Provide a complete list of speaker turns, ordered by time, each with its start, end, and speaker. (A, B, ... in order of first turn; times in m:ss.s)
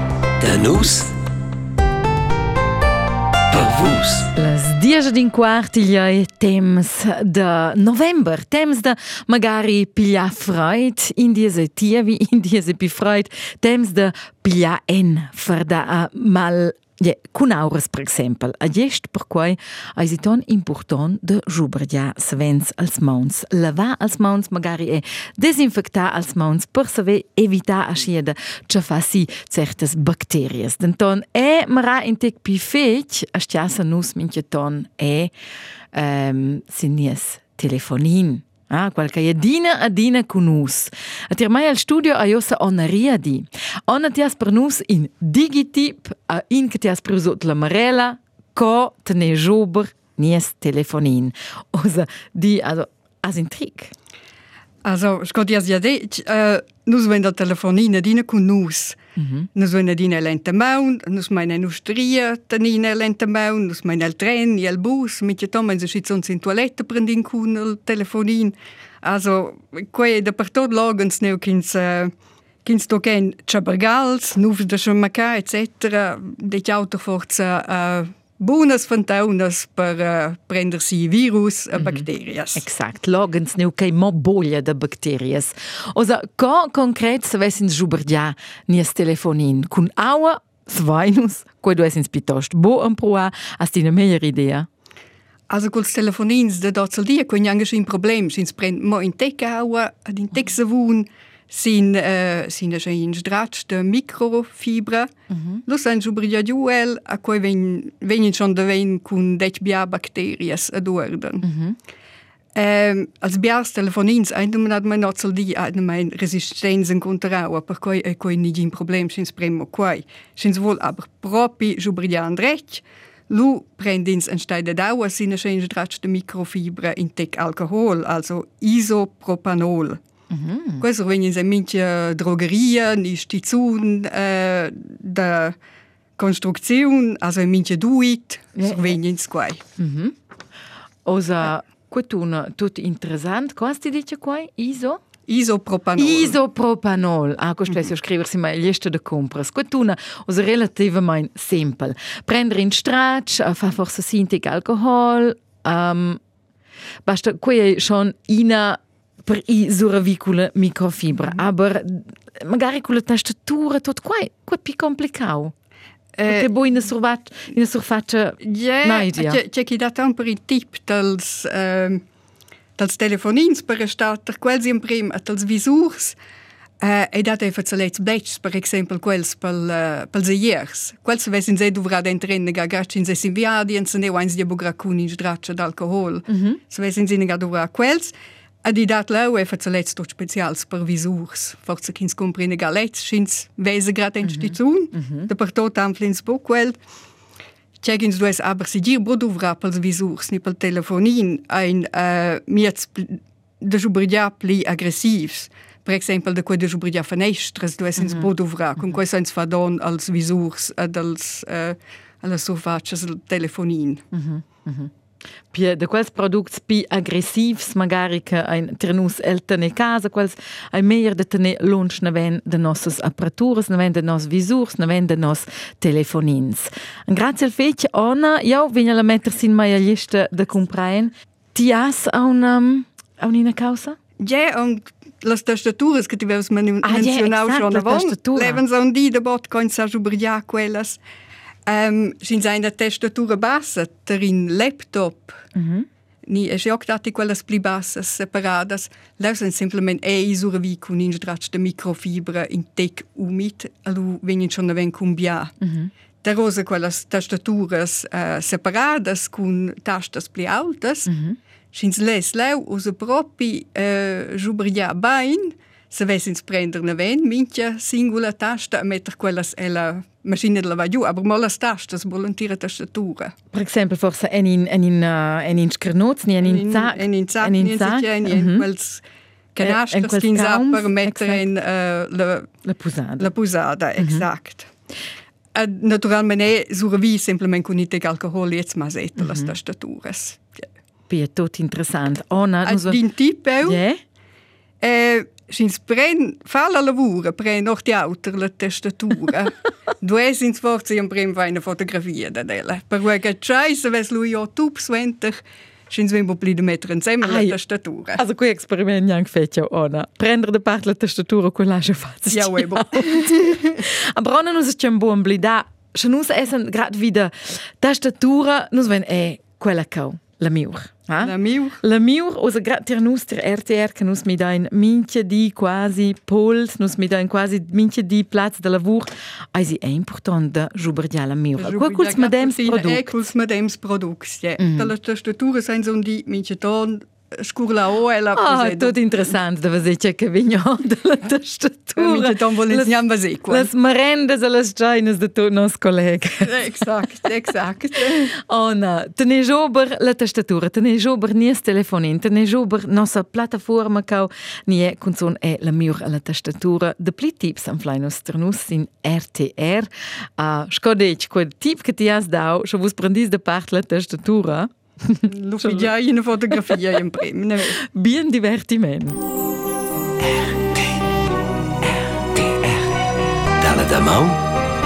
0:00.4-0:01.1 A
0:03.5-0:04.3 A
0:04.4-0:35.3 B
0:35.9-0:53.9 B
0:54.8-0:59.0 C
0:59.2-0:59.5 B
0:59.6-1:12.1 C
1:12.6-1:22.6 C
1:21.8-1:34.7 B
1:35.5-1:45.1 C
1:45.3-1:45.6 B
1:45.7-1:51.5 C
1:51.4-1:51.8 B
1:52.6-2:10.0 C
2:10.3-2:10.8 B
2:10.8-2:15.6 C
2:16.2-2:19.6 C
2:18.6-2:19.0 B
2:19.8-2:20.2 B
2:21.1-2:25.0 B
2:25.3-2:26.4 C
2:26.0-2:36.2 B
2:37.0-2:45.5 B
2:46.2-2:46.5 C
2:46.2-2:49.4 B
2:48.4-2:52.0 C
2:52.8-2:56.2 C
2:56.8-3:08.1 C
3:06.3-3:06.6 B
3:08.6-3:16.8 C
3:14.2-3:15.3 B
3:17.8-3:34.0 C
3:28.0-3:29.0 B
3:34.1-3:34.9 B
3:35.5-3:54.0 B
3:54.2-4:01.0 C
3:56.8-3:58.6 B
4:01.7-4:05.4 C
4:05.6-4:05.9 B
4:06.3-4:15.5 C
4:15.6-4:15.9 B
4:16.2-4:21.1 C
4:21.1-4:21.4 B
4:21.7-4:33.3 C
4:33.5-4:38.7 B
4:36.4-4:42.5 C
4:39.6-4:41.4 B
4:42.6-4:43.3 B
4:43.2-4:44.7 C
4:44.0-4:44.3 B
4:45.6-4:50.6 C
4:49.2-4:49.5 B
4:51.1-4:53.0 B
4:52.6-4:53.8 C
4:53.6-4:54.0 B
4:54.8-5:08.2 C
5:07.2-5:07.6 B
5:08.1-5:33.2 B
5:12.3-5:13.7 C
5:21.2-5:21.8 C
5:31.6-5:39.0 C
5:34.6-5:34.9 B
5:38.4-5:42.9 B
5:42.0-5:43.7 C
5:43.5-5:46.8 B
5:46.4-5:48.3 C
5:48.2-6:05.9 B
6:05.3-6:07.8 C
6:06.5-6:06.8 B
6:07.9-6:09.2 B
6:10.2-6:10.8 A
6:12.2-6:12.9 A
6:13.6-6:14.4 A